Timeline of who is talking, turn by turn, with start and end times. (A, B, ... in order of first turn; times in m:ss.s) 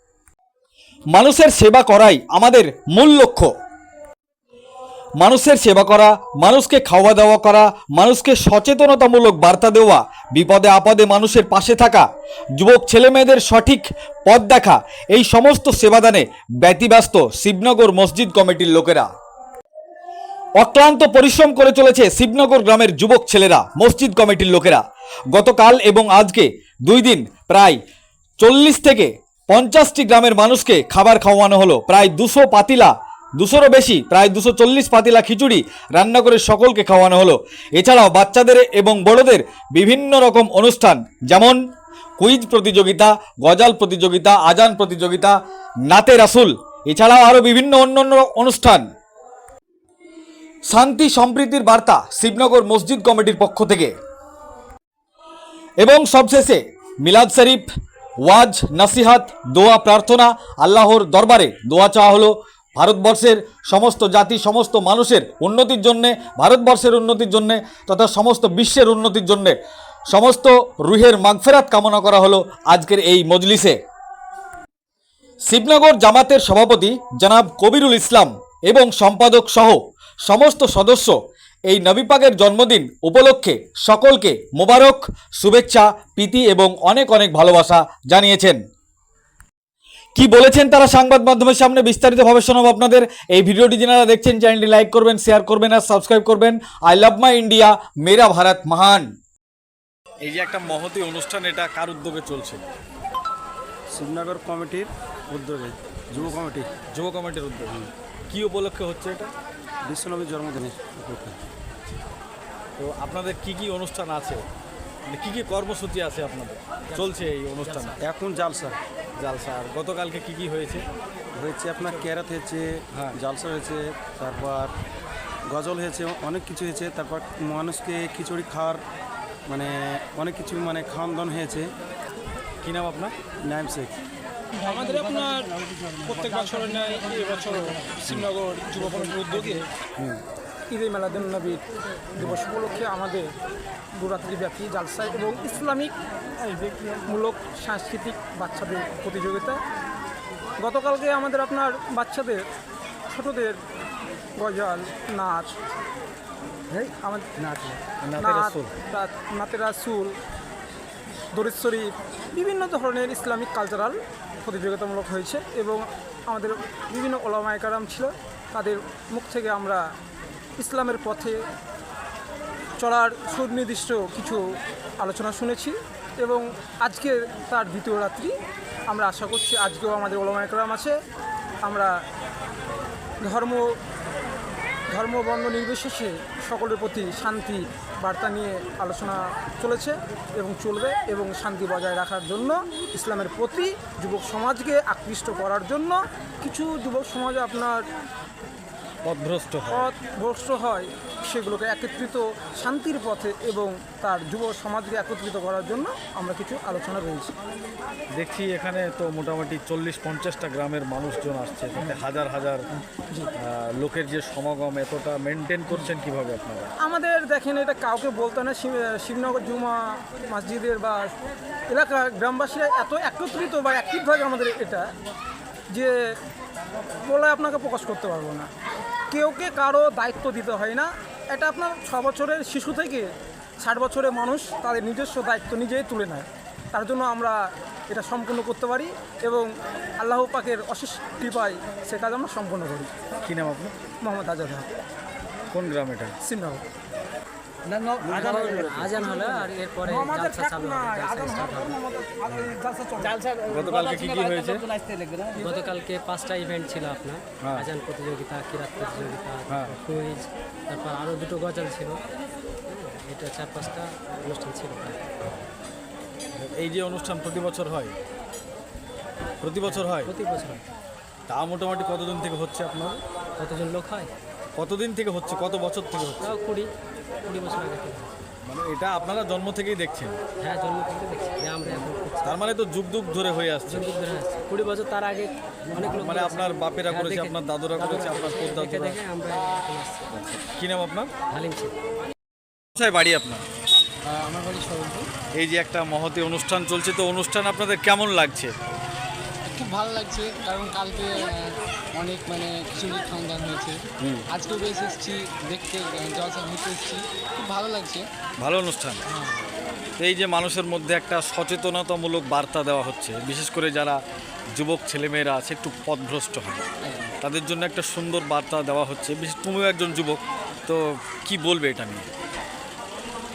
0:01.1-0:03.5 A
0:05.2-0:19.1 A
0:20.6-0:27.8 A
0:28.4-0:41.6 A
0:42.2-0:48.9 A
0:50.7-0:53.9 A
0:55.8-0:57.7 A
0:58.2-1:09.6 A
1:10.1-1:13.8 A
1:15.5-1:21.2 A
1:21.7-1:28.6 A
1:30.2-1:39.1 A
1:40.2-1:42.6 A
1:43.9-1:46.7 B
1:47.0-1:47.8 A
1:48.3-1:49.3 A
1:49.8-1:51.4 B
1:52.8-1:54.4 A
1:55.1-1:58.0 A
1:56.9-1:58.0 C
1:58.0-1:58.8 B
1:59.2-2:00.8 A
2:01.4-2:04.7 B
2:05.5-2:08.8 B
2:09.5-2:11.7 B
2:12.6-2:13.1 A
2:13.4-2:14.0 B
2:14.6-2:19.7 D
2:19.5-2:20.2 A
2:20.7-2:21.6 D
2:22.2-2:23.3 D
2:24.0-2:26.0 D
2:27.0-2:29.6 D
2:30.6-2:32.4 D
2:33.1-2:33.6 D
2:34.4-2:35.5 D
2:36.7-2:40.2 D
2:38.0-2:38.7 A
2:41.3-2:49.9 D
2:50.6-2:51.4 D
2:52.8-2:58.3 D
2:58.9-3:01.0 D
3:01.6-3:02.0 D
3:03.2-3:03.8 D
3:04.9-3:17.8 D
3:19.1-3:19.9 A
3:19.7-3:27.3 D
3:28.2-3:32.6 A
3:33.4-3:36.7 A
3:36.8-3:41.2 D
3:41.7-3:44.9 D
3:45.7-3:46.1 D
3:47.0-3:48.5 D
3:49.1-4:02.9 D
4:04.0-4:04.8 D
4:05.5-4:06.1 A
4:06.2-4:06.6 D
4:08.0-4:13.4 D
4:08.1-4:11.8 C
4:13.5-4:14.6 A
4:15.4-4:22.0 C
4:22.7-4:25.0 C
4:26.4-4:27.9 A
4:29.4-4:30.1 A
4:29.6-4:30.6 C
4:31.3-4:33.0 A
4:33.4-4:34.1 C
4:34.6-4:36.3 A
4:36.2-4:36.7 C
4:37.2-4:38.2 C
4:38.4-4:40.2 A
4:40.4-4:42.4 C
4:42.2-4:43.8 A
4:43.7-4:50.4 C
4:45.8-4:48.8 A
4:50.6-4:51.1 A
4:51.3-4:51.8 C
4:52.8-4:53.4 A
4:54.1-4:55.1 E
4:55.4-4:58.5 A
4:59.5-5:03.8 E
5:04.3-5:08.0 E
5:08.4-5:09.0 A
5:09.1-5:09.5 E
5:10.0-5:14.0 A
5:14.6-5:16.7 A
5:16.8-5:17.1 E
5:17.2-5:22.1 A